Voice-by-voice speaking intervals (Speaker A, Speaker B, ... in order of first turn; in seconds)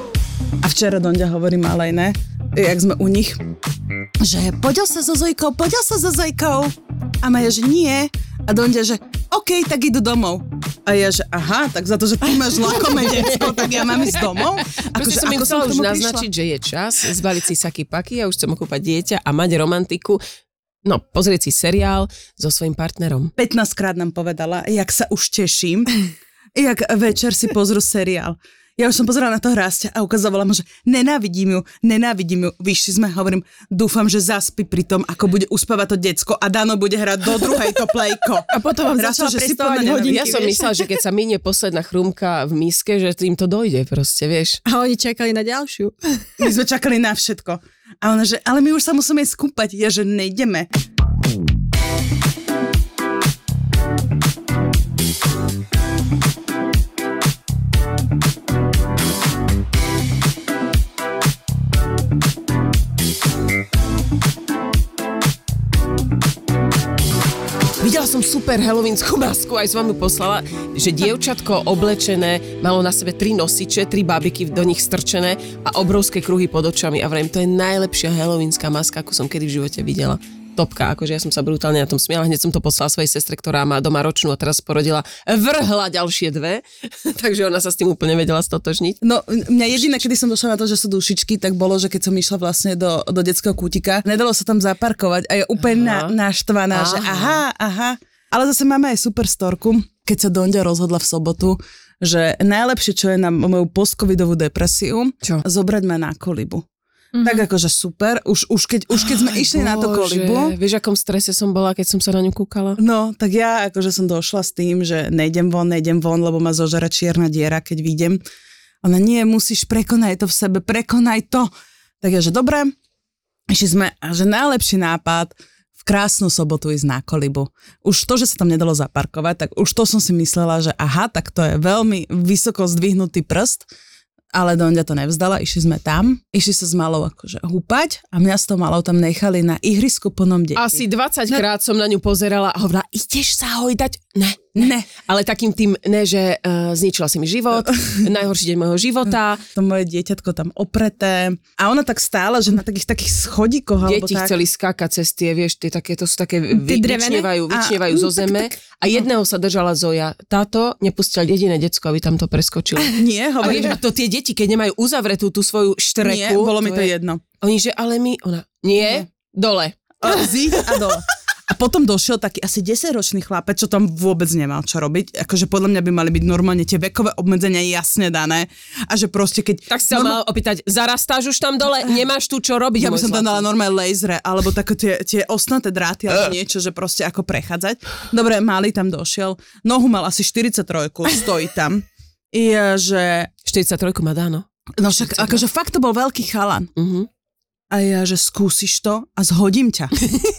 Speaker A: 0.6-3.4, 4.2-16.3, 23.4-25.9, 26.6-40.4, 46.4-50.7, 89.0-106.6, 107.2-110.5, 112.8-118.2, 118.8-122.7, 123.5-133.7, 134.3-140.8, 144.6-144.9, 147.6-148.0, 149.5-154.3, 157.5-158.5, 162.9-163.8, 166.0-167.2, 168.8-169.1, 170.0-180.2, 182.8-193.3, 194.8-196.7, 197.7-199.9
Speaker B: 14.9-20.2, 20.8-23.3, 40.0-44.6, 67.8-89.0, 95.6-96.1, 96.7-97.4, 109.0-112.8, 140.6-149.4, 153.8-170.3, 179.7-183.4, 193.4-194.4, 195.0-195.4, 196.8-197.1
Speaker C: 38.5-40.9, 44.6-46.3, 107.1-107.4, 156.5-157.3